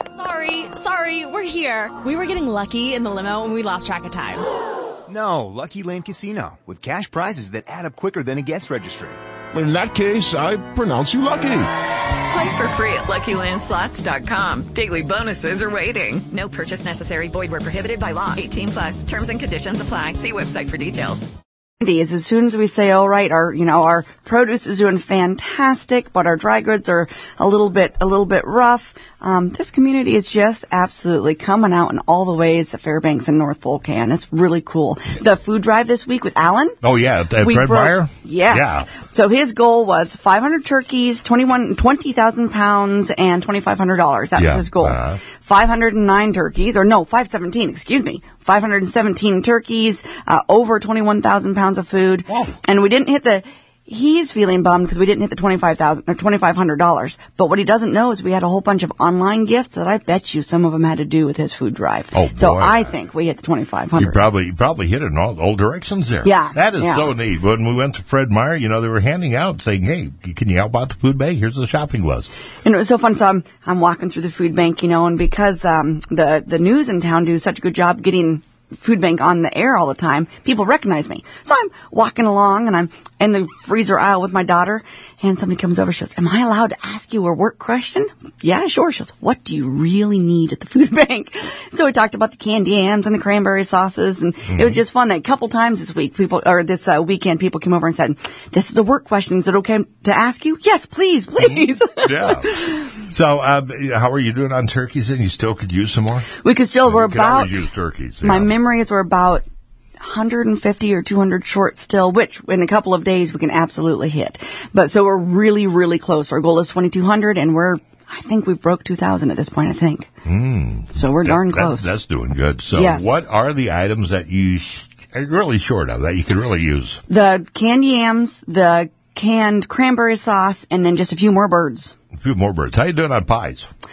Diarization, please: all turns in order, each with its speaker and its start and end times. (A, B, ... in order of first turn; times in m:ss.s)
0:00.2-0:04.5 A
0:05.1-0:09.2 B
0:09.5-0:11.7 C
0:12.3-0:21.3 D
0:21.8-0:36.8 E
0:36.8-0:38.9 F
0:37.4-1:04.3 E
0:44.4-0:45.2 F
0:52.3-0:52.6 F
1:02.1-1:02.9 F
1:04.0-1:12.3 F
1:06.2-1:07.1 E
1:12.6-1:42.7 E
1:34.5-1:34.8 F
1:41.4-1:46.3 F
1:46.4-1:47.7 E
1:46.8-1:48.5 F
1:48.2-1:49.4 E
1:50.0-2:00.1 E
2:00.3-2:07.0 F
2:00.9-2:02.0 E
2:02.7-2:03.2 E
2:07.1-2:11.9 E
2:12.2-2:13.7 F